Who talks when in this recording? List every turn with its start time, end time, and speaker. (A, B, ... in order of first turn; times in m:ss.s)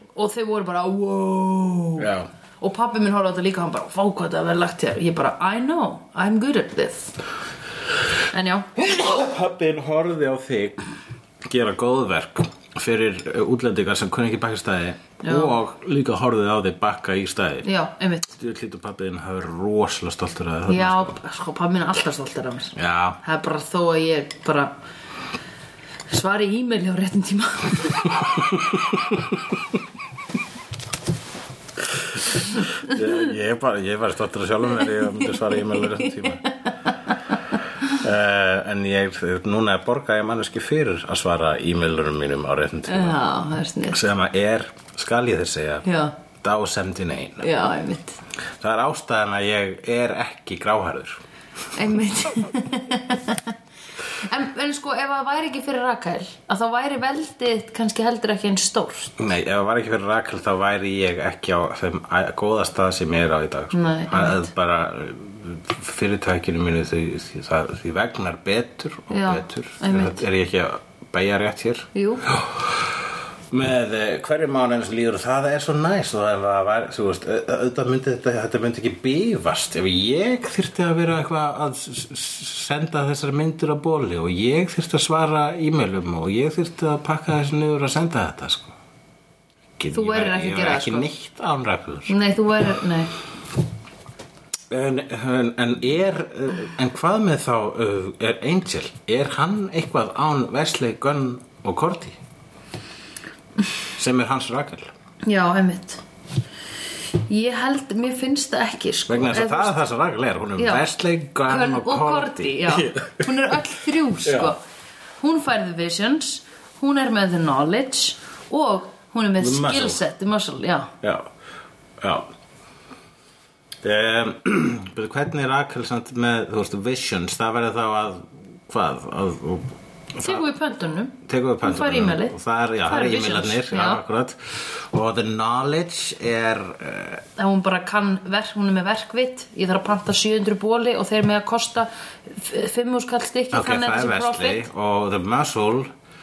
0:00.1-0:02.1 A
0:02.0-0:02.3 B
0:02.6-0:07.1 A
0:08.3-0:08.7 A
0:08.8-0:10.8 B
0:11.4-0:17.7 B
0:15.2-0:15.5 A
0:17.6-0:18.4 A
0:18.4-0:21.2 B
0:20.7-0:24.7 A
0:22.7-0:23.2 B
0:26.1-0:28.2 A
0:28.4-0:29.2 B
0:32.2-0:36.4 B
0:34.9-0:37.9 A
0:37.8-0:43.2 B
0:42.9-0:44.0 A
0:43.9-0:45.8 B
0:45.8-0:46.1 A
0:46.4-0:47.5 B
0:47.4-0:48.2 A
0:48.6-0:51.2 B
0:51.7-0:53.5 A
0:54.2-0:59.2 A
0:59.2-1:13.0 B
1:03.7-1:04.5 A
1:09.1-1:10.2 A
1:11.9-1:12.2 A
1:13.5-1:28.7 B
1:29.8-1:32.1 B
1:29.9-1:31.1 A
1:32.1-1:33.1 A
1:34.7-1:42.2 B
1:44.0-1:44.9 B
1:45.2-1:46.0 A
1:47.3-1:49.8 A
1:49.1-1:53.3 B
1:50.6-1:50.8 A
1:51.5-1:54.6 A
1:54.2-1:54.5 B
1:55.2-2:00.9 A
1:59.4-2:00.0 B
2:01.0-2:01.3 B
2:02.0-2:02.3 B
2:03.8-2:10.5 B
2:10.2-2:14.0 A
2:11.2-2:17.2 B
2:17.4-2:24.7 A
2:23.5-2:25.9 B